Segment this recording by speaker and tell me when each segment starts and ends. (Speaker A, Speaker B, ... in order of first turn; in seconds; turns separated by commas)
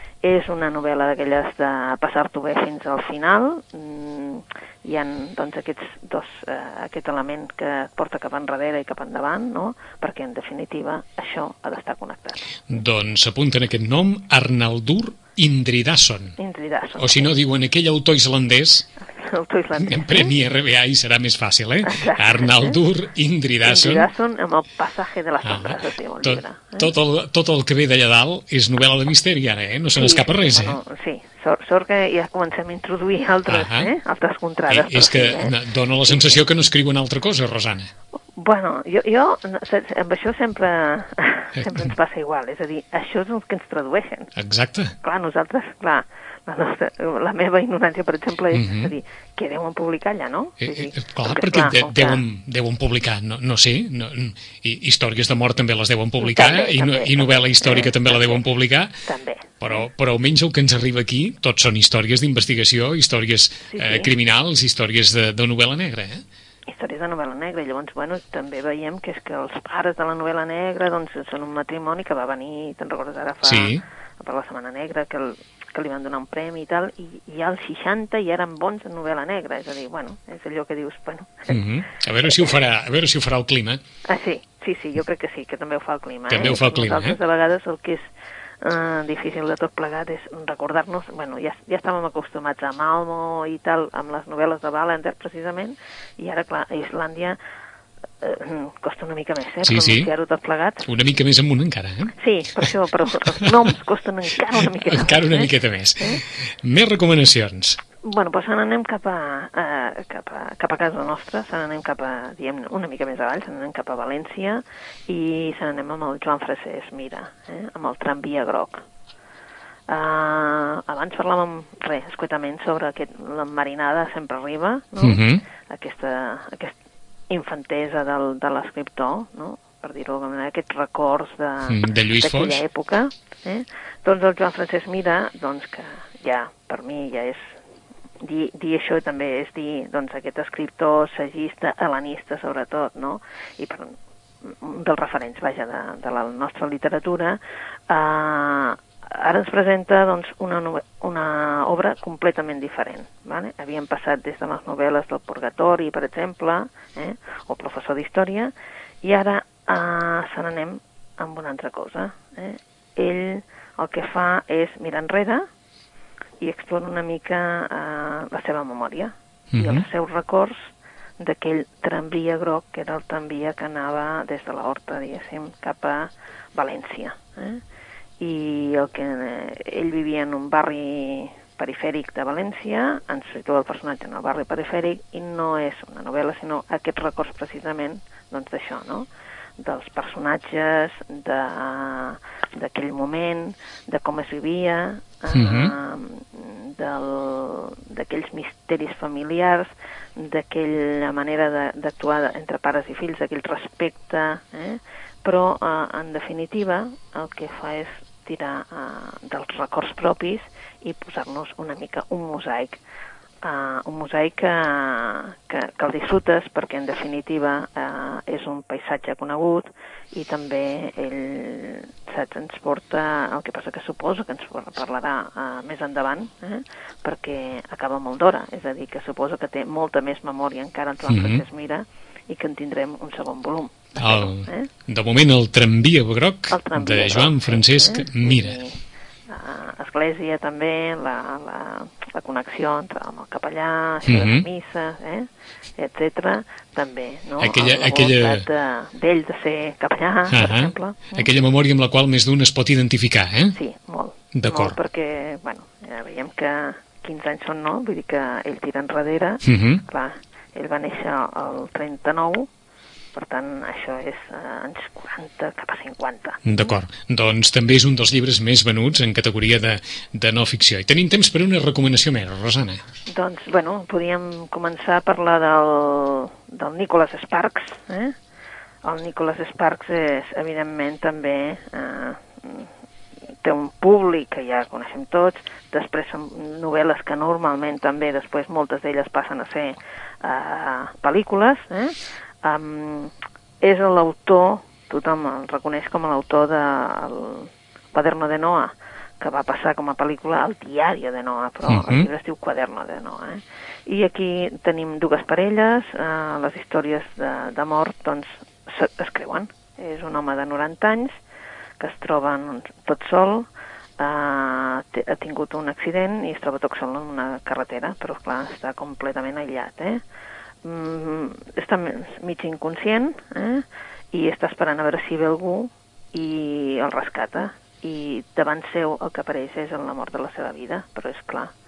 Speaker A: 0.2-12.5, Speaker B: 12.7-16.4, Speaker A: 16.4-17.3, Speaker B: 16.9-18.9, Speaker A: 19.0-20.3, Speaker B: 19.8-24.1, Speaker A: 21.8-22.8, Speaker A: 23.6-26.9, Speaker B: 25.4-30.8, Speaker A: 29.9-35.6, Speaker B: 33.5-33.9, Speaker B: 34.7-37.9, Speaker A: 38.4-44.3, Speaker B: 44.4-44.9, Speaker A: 45.0-52.2, Speaker B: 48.5-48.9, Speaker B: 50.6-58.9, Speaker A: 56.2-58.4, Speaker A: 59.0-59.6, Speaker B: 59.6-66.2, Speaker A: 63.7-64.1, Speaker A: 66.7-81.7, Speaker B: 73.4-73.8, Speaker B: 81.5-83.8, Speaker A: 84.0-88.1, Speaker B: 86.3-87.2, Speaker A: 88.6-97.4, Speaker A: 98.2-100.9, Speaker B: 99.6-100.1, Speaker B: 100.8-102.1, Speaker A: 102.2-106.2, Speaker B: 104.5-107.8, Speaker A: 108.0-118.8, Speaker A: 119.9-126.7, Speaker B: 125.0-125.4, Speaker A: 127.3-137.6, Speaker B: 131.7-132.6, Speaker A: 138.2-165.4, Speaker A: 166.4-177.6, Speaker B: 169.5-169.8, Speaker A: 178.2-189.1, Speaker A: 189.6-212.8, Speaker B: 195.3-195.7, Speaker A: 213.4-234.7, Speaker B: 231.1-231.4, Speaker B: 234.0-238.6, Speaker A: 236.5-251.3, Speaker B: 244.1-244.4, Speaker B: 247.4-248.4, Speaker B: 250.3-253.6, Speaker A: 253.5-262.5, Speaker B: 254.3-254.8, Speaker B: 259.4-259.8, Speaker A: 263.1-266.5, Speaker B: 266.4-272.8, Speaker A: 273.1-278.1, Speaker A: 278.8-282.7, Speaker A: 283.4-311.1, Speaker B: 301.7-302.1, Speaker A: 311.8-313.5, Speaker A: 314.0-320.0, Speaker A: 320.6-331.5